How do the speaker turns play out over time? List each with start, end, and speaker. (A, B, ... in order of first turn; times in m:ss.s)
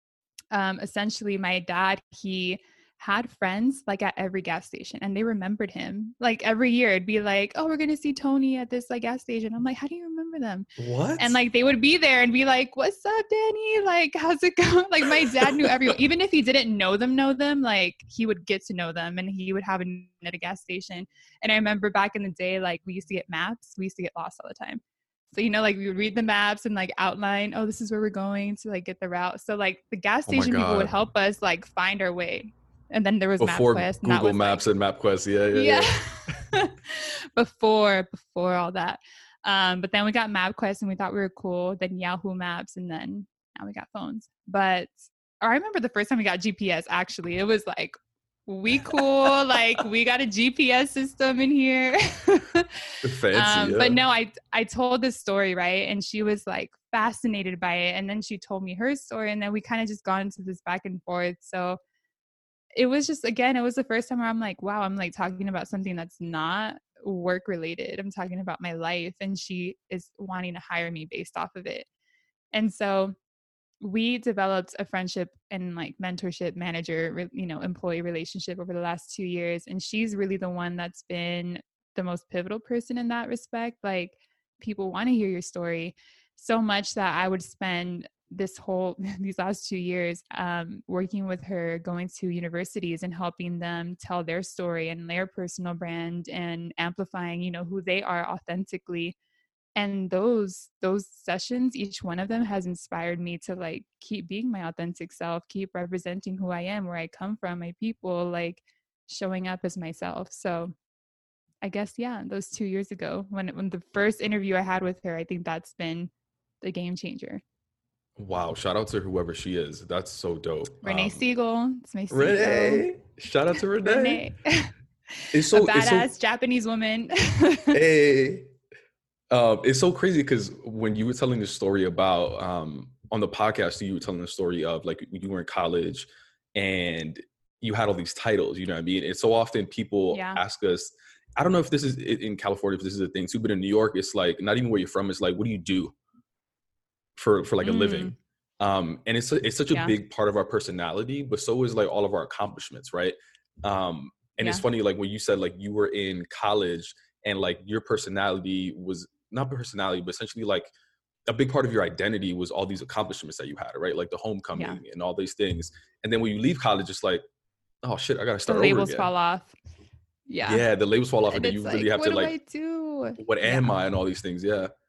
0:00.5-0:34.6 A
0:10.8-0:11.4 B
0:15.5-0:16.0 B
0:30.3-0:30.9 B
0:33.4-0:36.0 B
0:35.5-0:48.0 A
0:48.5-1:01.8 A
0:53.0-0:54.0 B
1:02.8-1:11.9 A
1:12.5-1:13.1 A
1:13.8-1:39.2 A
1:39.8-1:50.7 A
1:51.6-1:56.1 A
1:56.6-1:57.4 A
1:58.2-2:01.2 B
2:00.8-2:02.9 A
2:02.1-2:04.3 B
2:03.8-2:07.8 A
2:05.3-2:06.1 B
2:07.7-2:08.5 B
2:09.3-2:25.9 B
2:20.1-2:20.4 A
2:27.2-2:40.7 B
2:27.6-2:28.2 A
2:34.4-2:34.6 A
2:41.3-2:47.2 B
2:47.8-2:49.1 B
2:48.4-2:49.5 A
2:50.3-2:50.6 A
2:50.5-2:52.3 B
2:51.3-2:53.7 A
2:53.2-2:54.7 B